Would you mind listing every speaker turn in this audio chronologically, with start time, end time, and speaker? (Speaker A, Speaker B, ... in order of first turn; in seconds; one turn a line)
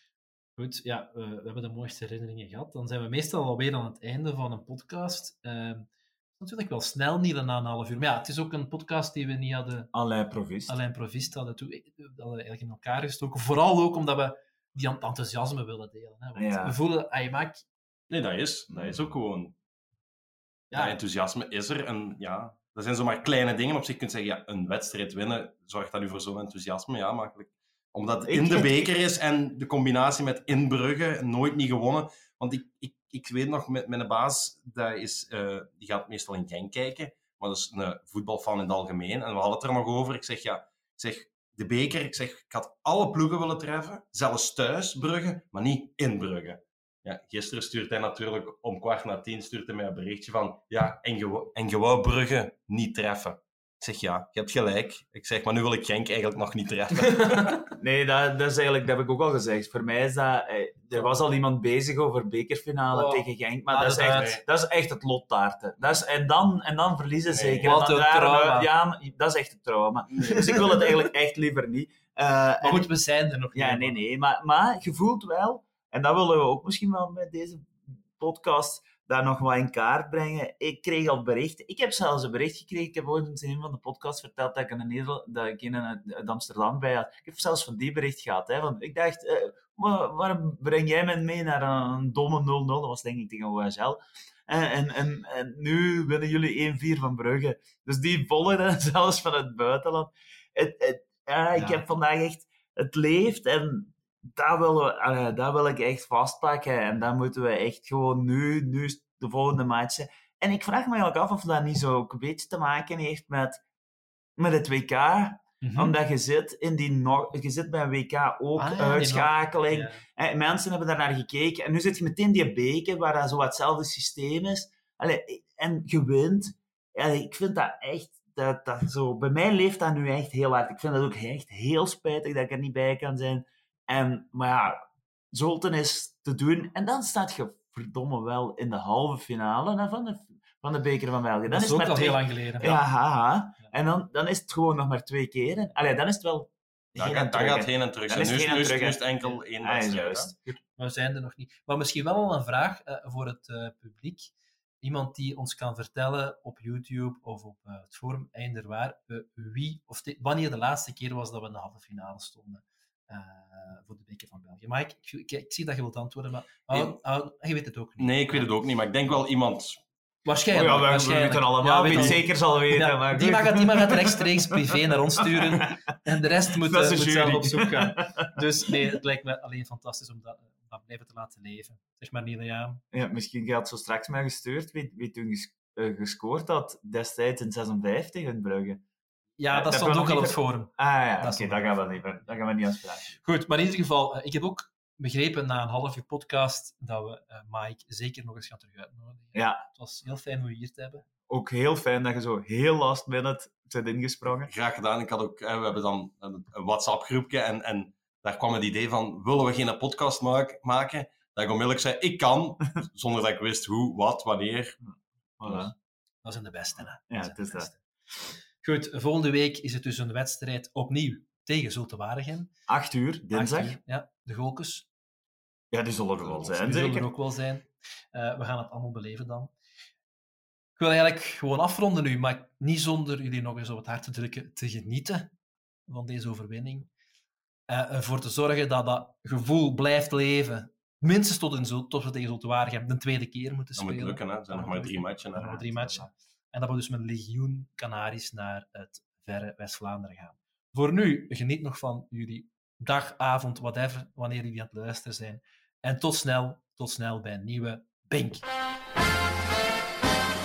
Speaker A: 0.6-9.9
Speaker B: 9.9-10.8
Speaker A: 10.7-17.6
Speaker B: 16.4-16.8
Speaker C: 18.1-19.6
Speaker A: 20.7-21.0
Speaker C: 20.7-57.6
Speaker B: 28.3-28.9
Speaker A: 57.0-57.7
Speaker B: 57.8-72.9
Speaker A: 62.9-64.4
Speaker C: 64.0-64.3
Speaker C: 67.3-67.7
Speaker A: 67.6-68.7
Speaker A: 70.2-70.9
Speaker C: 70.3-70.6
Speaker A: 72.6-74.0
Speaker B: 73.5-113.6
Speaker A: 101.5-101.8
Speaker B: 114.4-134.8
Speaker A: 115.6-115.9
Speaker A: 118.6-120.0
Speaker B: 135.3-149.1
Speaker A: 141.5-142.8
Speaker C: 147.0-150.3
Speaker B: 149.6-150.6
Speaker A: 150.8-168.5
Speaker C: 166.7-167.0
Speaker C: 168.0-169.8
Speaker A: 170.2-182.8
Speaker B: 170.5-174.5
Speaker B: 175.2-175.8
Speaker B: 176.5-178.7
Speaker B: 182.9-188.8
Speaker A: 189.4-192.4
Speaker B: 189.5-193.2
Speaker A: 193.2-201.1
Speaker B: 199.3-199.6
Speaker B: 201.3-204.5
Speaker C: 204.5-214.8
Speaker B: 215.4-215.7
Speaker C: 215.4-215.7
Speaker A: 216.2-217.8
Speaker B: 217.1-217.7
Speaker A: 218.6-222.5
Speaker B: 222.7-223.8
Speaker A: 223.3-224.9
Speaker B: 225.7-227.1
Speaker A: 226.5-229.5
Speaker A: 230.8-235.3
Speaker A: 235.9-236.9
Speaker A: 237.7-258.4
Speaker C: 243.8-246.0